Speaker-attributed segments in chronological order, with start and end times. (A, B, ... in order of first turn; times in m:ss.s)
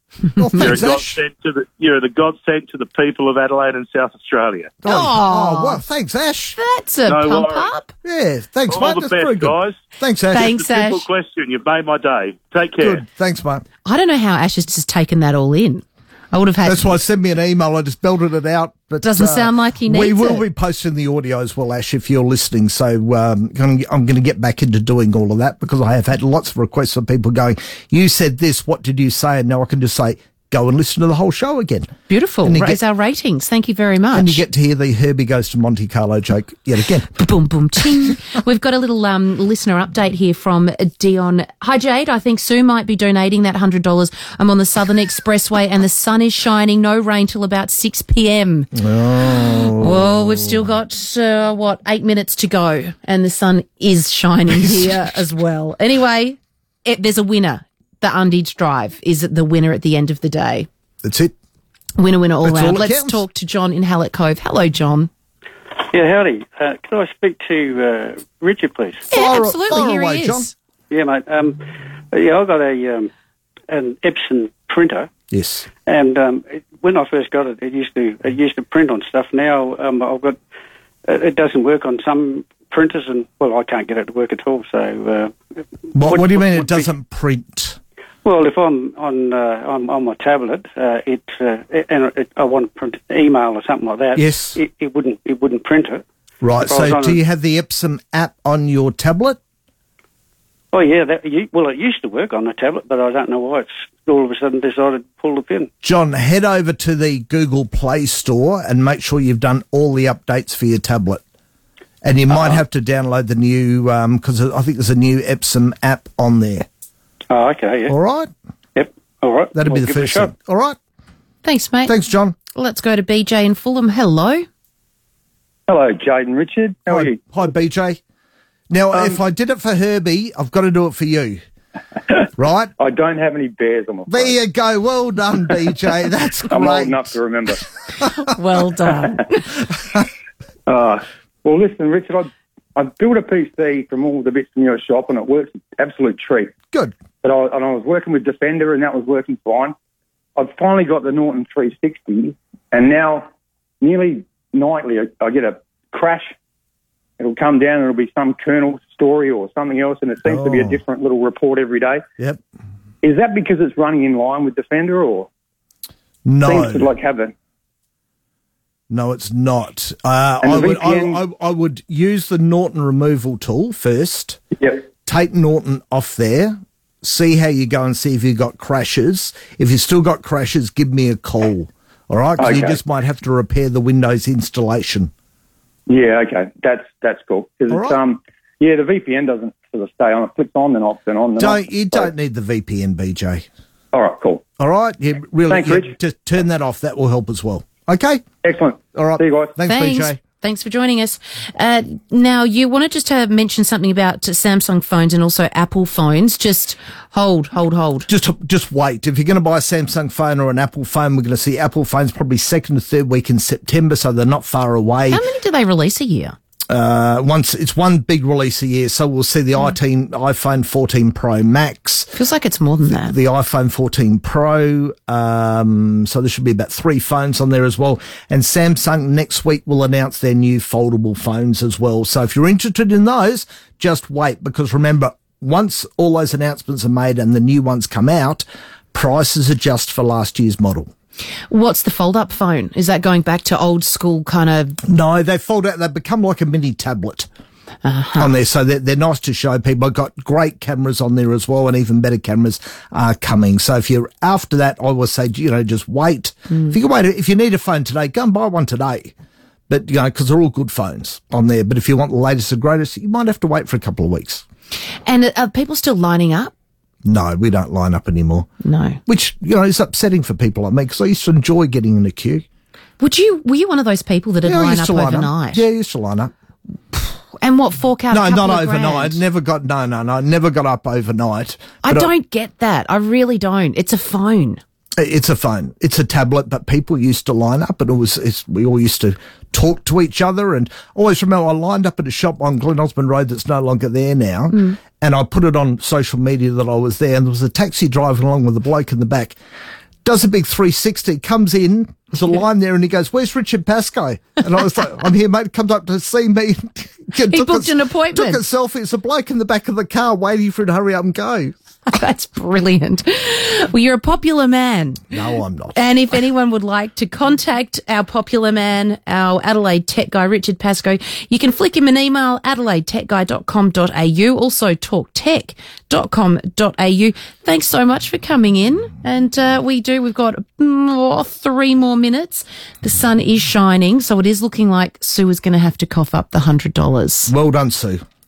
0:00.4-0:01.2 A
0:00.6-0:04.8 B
0:04.8-0:06.6 A
0:04.8-0:05.8 C
0:06.6-0:07.9 C
0:07.1-0:07.7 B
0:08.0-0:10.5 A
0:08.7-0:09.8 B
0:10.3-0:11.0 C
0:10.3-0:13.0 B
0:12.8-0:13.6 A
0:13.8-0:17.0 C
0:16.6-0:31.9 A
0:19.0-0:20.4 C
0:32.1-0:34.4 C
0:32.4-0:32.8 A
0:34.1-0:37.1 A
0:37.1-0:48.7 C
0:48.7-0:50.2 A
0:49.8-1:00.7 C
0:54.7-0:55.0 A
1:01.0-1:01.3 A
1:02.0-1:05.1 C
1:02.4-1:03.2 A
1:05.9-1:09.0 D
1:09.1-1:10.5 A
1:09.1-1:10.5 C
1:10.9-1:11.6 D
1:12.1-1:13.1 D
1:13.7-1:15.1 D
1:15.3-1:15.7 A
1:15.8-1:20.4 D
1:21.0-1:25.3 D
1:25.9-1:26.9 D
1:25.9-1:27.8 A
1:28.2-1:36.0 D
1:34.1-1:34.6 A
1:36.4-1:39.4 A
1:36.6-1:37.2 D
1:40.7-1:45.7 D
1:45.8-1:51.2 A
1:52.0-1:56.7 A
1:52.3-1:52.6 D
1:57.3-1:57.9 D
1:57.9-1:58.3 A
1:58.8-2:00.3 D
1:59.5-2:00.8 A
2:01.4-2:01.9 C
2:01.8-2:02.4 A
2:02.5-2:04.4 C
2:05.7-2:07.2 E
2:06.9-2:08.0 A
2:08.7-2:11.4 A
2:12.4-2:12.7 A
2:12.8-2:14.4 E
2:14.1-2:17.1 A
2:16.5-2:17.6 E
2:18.1-2:19.5 C
2:20.7-2:26.5 E
2:27.2-2:29.7 E
2:30.4-2:33.3 E
2:33.8-2:36.3 E
2:37.2-2:42.0 E
2:40.2-2:40.8 A
2:43.0-2:45.3 E
2:46.2-2:46.9 A
2:46.4-2:47.3 E
2:48.9-2:54.4 A
2:50.4-2:51.2 E
2:55.0-3:05.1 A
3:02.4-3:02.8 E
3:05.9-3:12.1 E
3:07.7-3:08.0 A
3:11.4-3:13.4 A
3:13.9-3:14.4 E
3:14.6-3:18.2 A
3:15.5-3:15.9 E
3:18.4-3:19.5 E
3:18.9-3:20.2 A
3:19.7-3:28.1 C
3:28.1-3:35.2 A
3:35.1-3:36.3 C
3:36.7-3:42.1 A
3:42.1-3:43.1 C
3:42.8-4:00.9 A
4:01.5-4:04.8 C
4:04.8-4:07.3 A
4:07.8-4:08.3 C
4:08.2-4:19.1 A
4:19.7-4:24.4 A
4:25.0-4:26.5 C
4:27.0-4:28.5 A
4:28.6-4:29.0 C
4:29.0-4:32.4 A
4:33.0-4:35.6 C
4:34.4-4:36.3 A
4:36.9-4:39.2 C
4:38.1-4:42.1 A
4:41.8-4:44.6 C
4:45.0-4:59.3 A
5:00.0-5:11.5 A
5:07.3-5:08.4 C
5:11.9-5:15.1 C
5:15.1-5:15.8 A
5:15.7-5:37.3 C
5:37.3-5:38.0 A